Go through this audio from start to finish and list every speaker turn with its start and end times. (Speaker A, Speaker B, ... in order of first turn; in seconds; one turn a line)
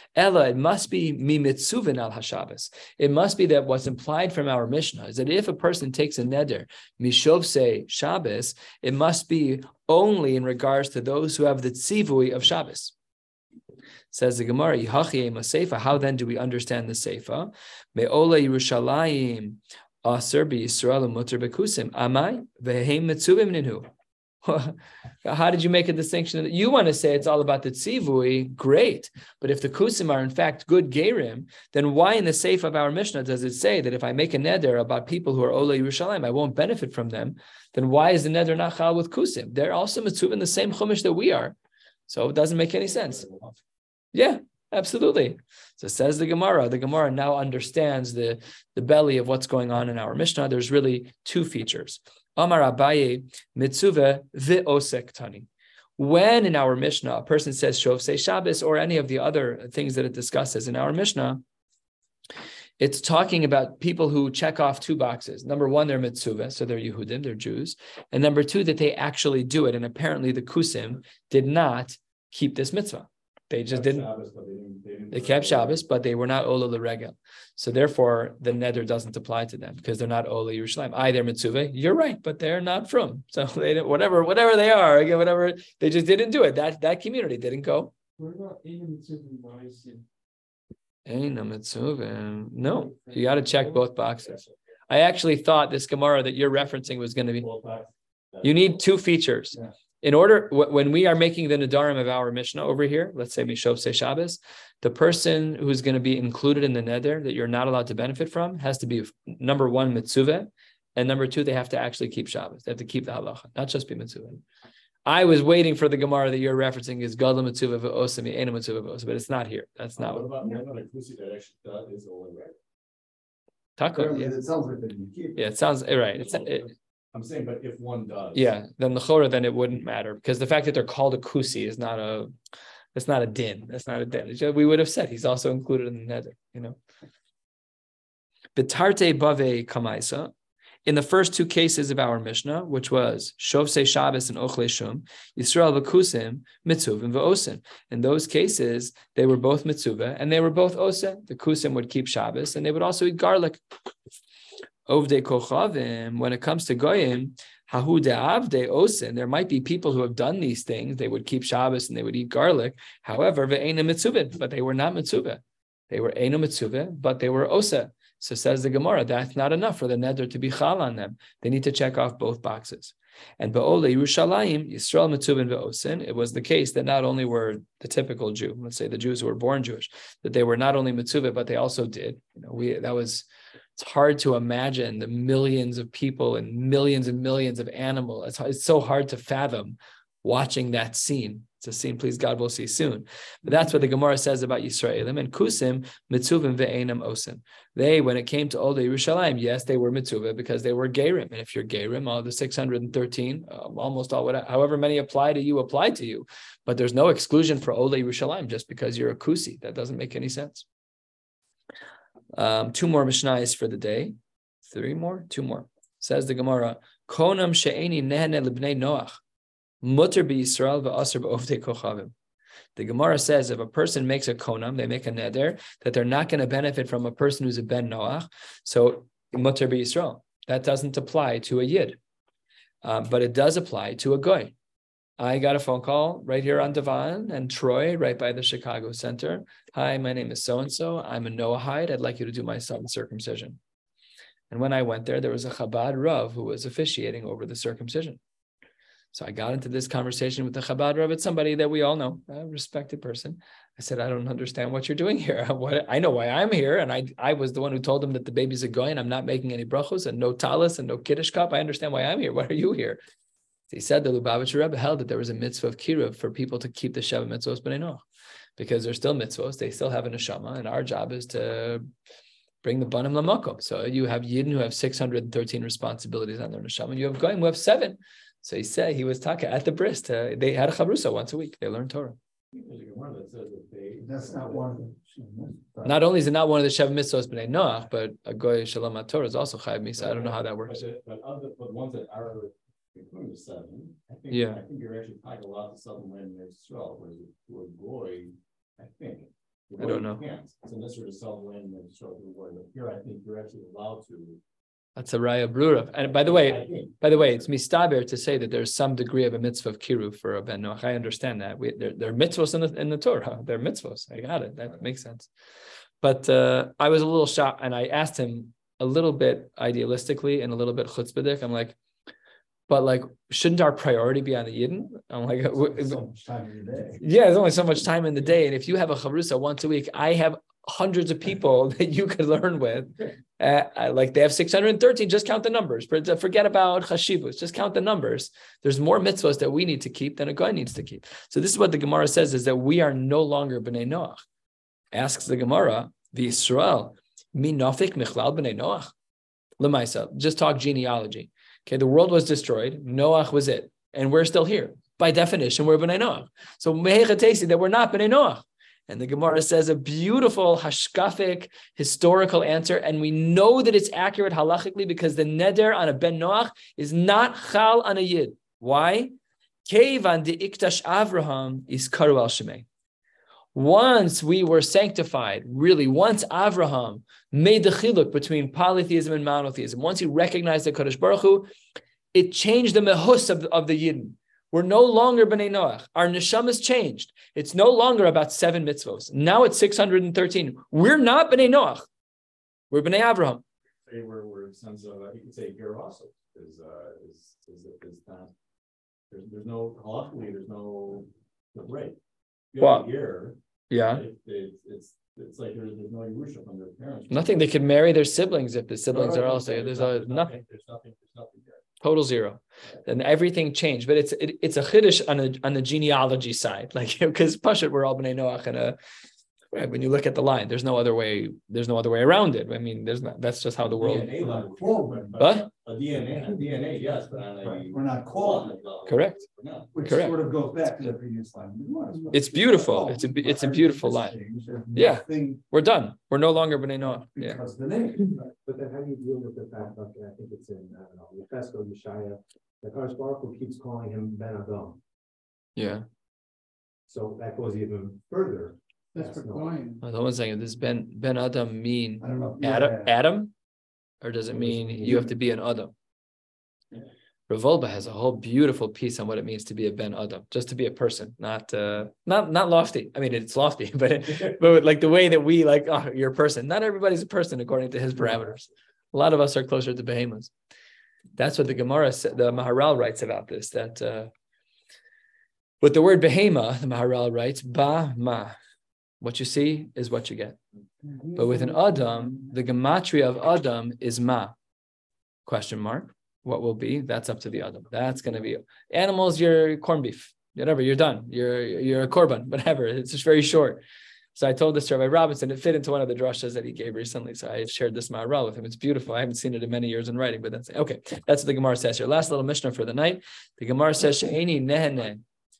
Speaker A: 0.1-12.9
Speaker A: 14.1-23.9
Speaker A: 24.4-41.5
Speaker A: 42.1-43.2
Speaker B: 42.8-43.6
Speaker A: 44.1-55.5
Speaker A: 56.0-61.4
Speaker A: 62.8-74.1
Speaker B: 73.7-75.8
Speaker A: 75.1-87.9
Speaker C: 88.2-90.0
Speaker A: 91.0-97.5
Speaker C: 92.6-93.8
Speaker B: 94.2-94.5
Speaker B: 97.4-98.8
Speaker A: 98.4-114.4
Speaker A: 115.0-120.2
Speaker B: 120.0-122.6
Speaker A: 123.8-124.3
Speaker D: 123.9-125.4
Speaker A: 125.3-126.7
Speaker B: 126.1-128.5
Speaker A: 128.3-132.3
Speaker A: 132.9-136.8
Speaker A: 138.6-140.3
Speaker A: 140.8-153.6
Speaker A: 154.9-210.7
Speaker A: 212.3-219.2
Speaker A: 219.8-222.1
Speaker A: 222.8-232.0
Speaker A: 232.8-234.5
Speaker A: 235.2-243.6
Speaker A: 244.5-248.2
Speaker A: 249.1-263.0
Speaker A: 263.7-268.0
Speaker A: 268.6-271.8
Speaker A: 272.6-282.2
Speaker B: 282.5-284.7
Speaker D: 284.0-286.0
Speaker A: 285.8-290.8
Speaker B: 290.0-304.4
Speaker A: 294.3-294.6
Speaker A: 299.8-300.2
Speaker A: 304.9-315.3
Speaker B: 306.0-307.5
Speaker A: 316.0-321.8
Speaker A: 322.7-326.1
Speaker D: 325.6-327.0
Speaker A: 327.0-344.2
Speaker A: 344.9-348.9
Speaker A: 349.6-369.1
Speaker A: 369.6-372.6
Speaker A: 373.5-381.5
Speaker A: 382.1-391.9
Speaker A: 392.7-393.4
Speaker B: 393.9-398.3
Speaker B: 399.1-402.0
Speaker B: 402.5-407.5
Speaker A: 402.6-402.9
Speaker A: 403.7-404.0
Speaker A: 407.1-410.3
Speaker B: 408.9-411.6
Speaker A: 411.8-418.8
Speaker A: 419.5-424.1
Speaker B: 423.7-430.0
Speaker D: 423.8-425.2
Speaker A: 425.2-425.5
Speaker D: 426.1-426.5
Speaker D: 427.4-428.6
Speaker A: 428.9-429.2
Speaker D: 429.7-435.4
Speaker A: 429.8-430.1
Speaker A: 432.1-434.2
Speaker A: 434.7-437.4
Speaker D: 436.9-438.2
Speaker E: 438.2-444.8
Speaker A: 445.6-445.8
Speaker E: 446.9-449.5
Speaker C: 448.9-449.8
Speaker A: 449.8-453.3
Speaker D: 452.0-452.9
Speaker A: 454.0-455.7
Speaker D: 454.4-455.1
Speaker A: 457.3-470.3
Speaker A: 471.2-474.1
Speaker A: 475.6-478.4
Speaker A: 479.0-480.4
Speaker C: 481.1-481.5
Speaker A: 481.1-484.3
Speaker A: 485.2-493.6
Speaker A: 494.1-505.0